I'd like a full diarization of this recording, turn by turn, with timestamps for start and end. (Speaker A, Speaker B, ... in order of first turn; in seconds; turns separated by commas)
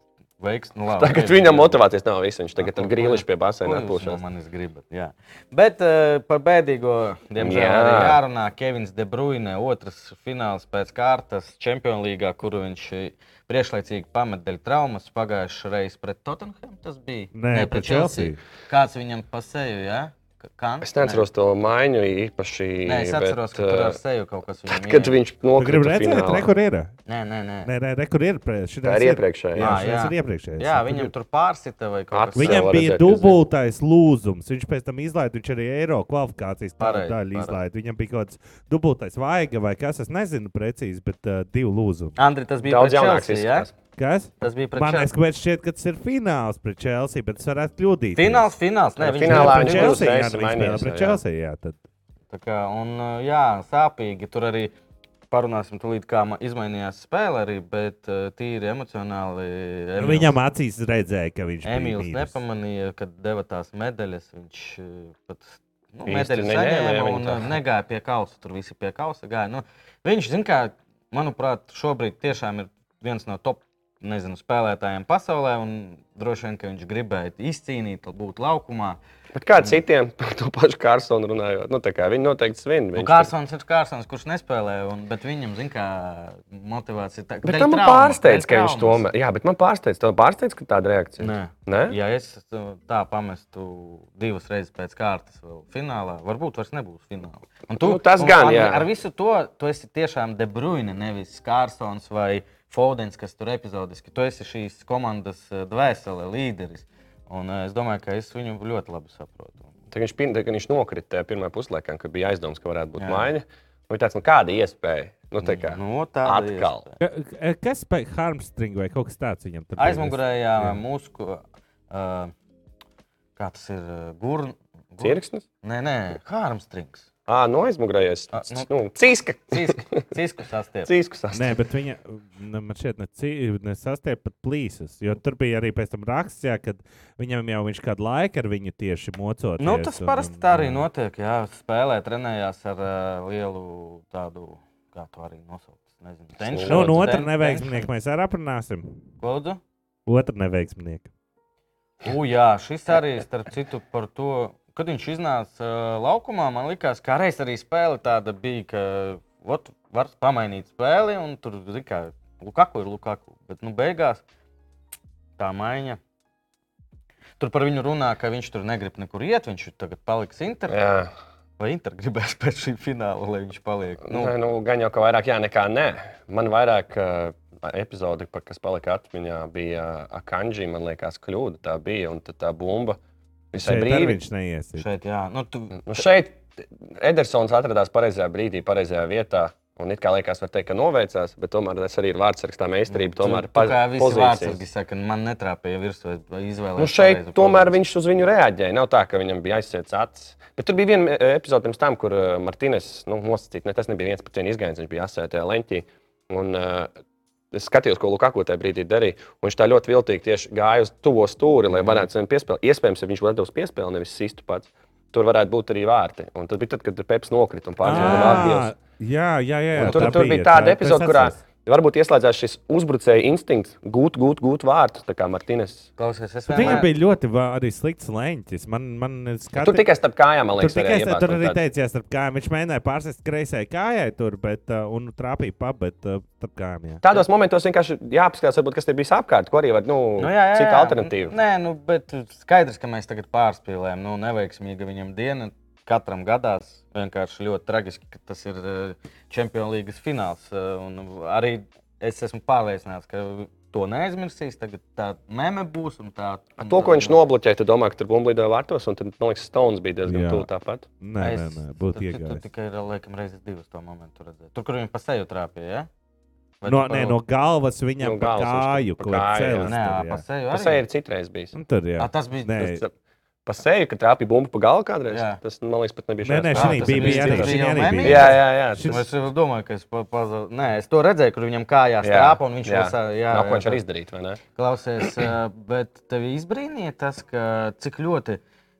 Speaker A: 0.4-1.8, Speaker B: 0.9-4.2, Speaker A: 2.6-21.2, Speaker B: 7.4-8.2, Speaker C: 17.4-18.4, Speaker B: 20.8-24.0, Speaker A: 22.8-25.2, Speaker B: 24.7-26.5, Speaker C: 25.6-26.9, Speaker A: 27.1-27.7, Speaker C: 27.6-31.1, Speaker B: 28.8-29.8, Speaker A: 29.6-33.3, Speaker B: 32.1-33.3, Speaker C: 32.4-42.2, Speaker A: 36.8-37.6, Speaker A: 42.2-43.7, Speaker B: 42.6-43.7, Speaker C: 44.0-48.5, Speaker A: 44.4-45.1, Speaker A: 48.1-50.1, Speaker B: 49.0-51.2, Speaker C: 49.2-51.8, Speaker A: 52.3-54.7, Speaker A: 55.3-60.4, Speaker C: 60.0-62.4, Speaker A: 61.6-79.0, Speaker B: 66.0-67.5, Speaker B: 79.3-83.3, Speaker A: 82.9-89.0, Speaker B: 87.5-92.0, Speaker A: 91.2-109.7, Speaker B: 97.8-98.9, Speaker B: 109.9-116.8, Speaker A: 113.0-113.3, Speaker A: 115.4-117.0, Speaker C: 117.0-120.8, Speaker A: 119.8-122.3, Speaker A: 123.4-127.0, Speaker B: 125.0-125.5, Speaker B: 127.3-130.0, Speaker A: 128.3-128.7, Speaker A: 129.5-130.9, Speaker B: 130.9-131.6, Speaker C: 131.3-140.8, Speaker A: 139.6-147.9, Speaker B: 146.4-147.2, Speaker C: 146.7-148.9, Speaker A: 149.2-149.6, Speaker C: 150.1-151.1, Speaker A: 152.0-164.2, Speaker A: 165.4-166.0, Speaker A: 167.4-170.8, Speaker B: 170.7-171.1, Speaker A: 171.6-174.3, Speaker B: 174.0-183.0, Speaker B: 183.5-184.2, Speaker C: 183.5-184.8, Speaker A: 184.8-186.1, Speaker B: 185.8-194.6, Speaker A: 192.9-197.8, Speaker B: 196.8-206.9, Speaker B: 207.5-218.7, Speaker C: 217.8-221.4, Speaker A: 217.8-218.6, Speaker B: 219.8-225.9, Speaker A: 219.8-220.2, Speaker A: 226.0-226.9, Speaker C: 226.5-229.8, Speaker B: 226.6-226.8, Speaker B: 229.6-231.6, Speaker C: 230.6-237.0, Speaker B: 237.0-241.4, Speaker A: 240.2-257.2, Speaker B: 256.6-260.9, Speaker C: 260.1-260.5, Speaker C: 261.0-262.4, Speaker A: 261.2-265.9, Speaker A: 266.6-267.2, Speaker C: 266.7-270.2, Speaker B: 268.0-269.8, Speaker A: 269.6-270.8, Speaker B: 270.5-271.5, Speaker C: 271.5-272.8, Speaker A: 272.0-272.6, Speaker B: 272.6-272.9, Speaker B: 273.4-279.0, Speaker A: 275.1-275.4, Speaker C: 276.2-279.1, Speaker A: 276.5-283.8, Speaker B: 282.0-284.4, Speaker A: 284.5-288.4